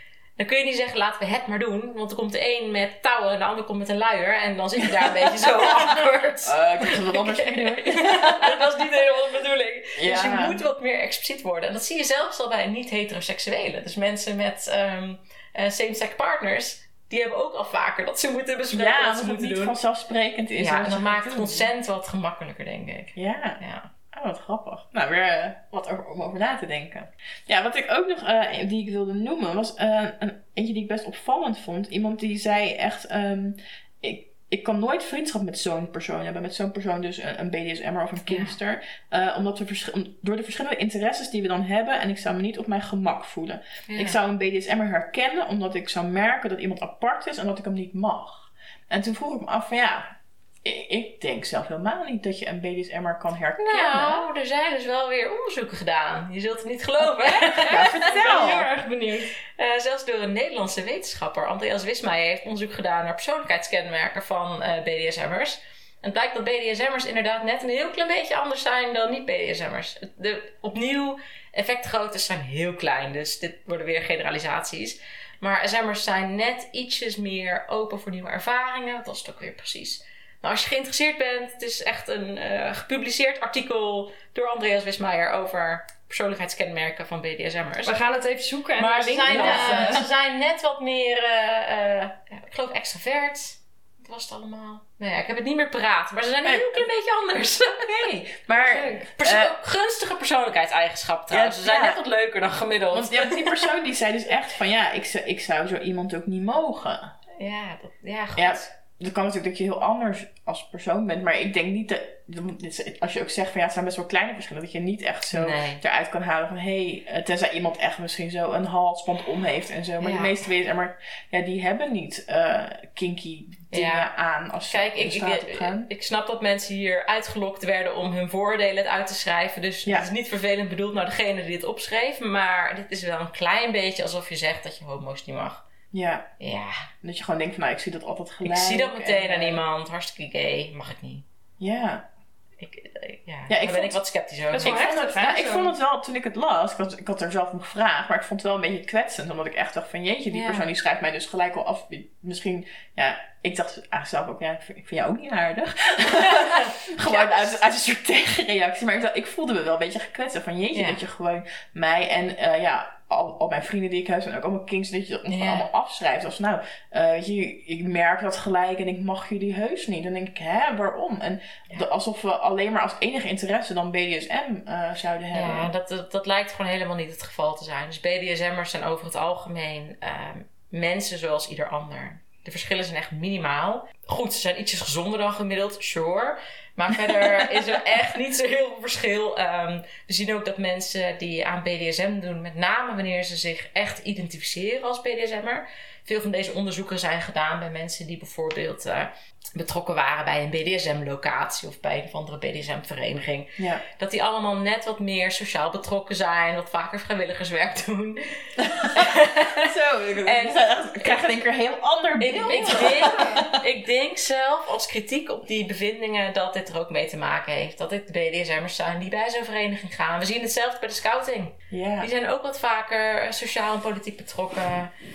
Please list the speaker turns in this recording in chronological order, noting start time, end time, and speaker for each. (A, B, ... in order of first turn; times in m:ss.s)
0:00.4-0:19.8 A
0:05.6-0:05.9 B
0:06.4-0:08.8 B
0:10.0-0:10.6 B
0:18.7-0:21.7 B
0:20.6-0:23.9 A
0:23.2-0:23.6 B
0:24.1-0:54.3 B
0:38.3-0:38.6 A
0:43.9-0:44.2 A
0:53.6-0:57.9 A
0:57.0-0:58.7 B
0:57.6-0:59.3 C
0:59.6-1:28.0 A
1:27.8-1:30.0 C
1:28.8-1:37.9 A
1:29.3-1:30.1 B
1:36.4-1:36.9 B
1:37.6-1:39.5 B
1:38.6-1:39.1 C
1:39.2-1:43.8 A
1:41.3-1:42.0 B
1:42.9-1:47.1 B
1:47.4-1:48.7 A
1:48.4-2:05.9 B
1:55.3-1:55.8 A
2:00.0-2:00.4 A
2:03.7-2:04.1 A
2:04.7-2:15.6 A
2:15.9-2:16.3 B
2:16.4-2:16.9 A
2:17.0-2:19.6 B
2:18.4-2:21.2 A
2:21.6-2:22.1 B
2:22.6-2:24.9 A
2:23.5-2:24.0 B
2:24.5-2:25.7 C
2:24.6-2:55.7 B
2:30.3-2:30.7 A
2:36.4-2:37.6 A
2:40.7-2:41.0 A
2:45.3-2:45.7 A
2:55.3-3:30.8 A
3:23.6-3:23.8 B
3:28.6-3:33.6 B
3:32.2-3:44.9 A
3:41.7-3:42.1 B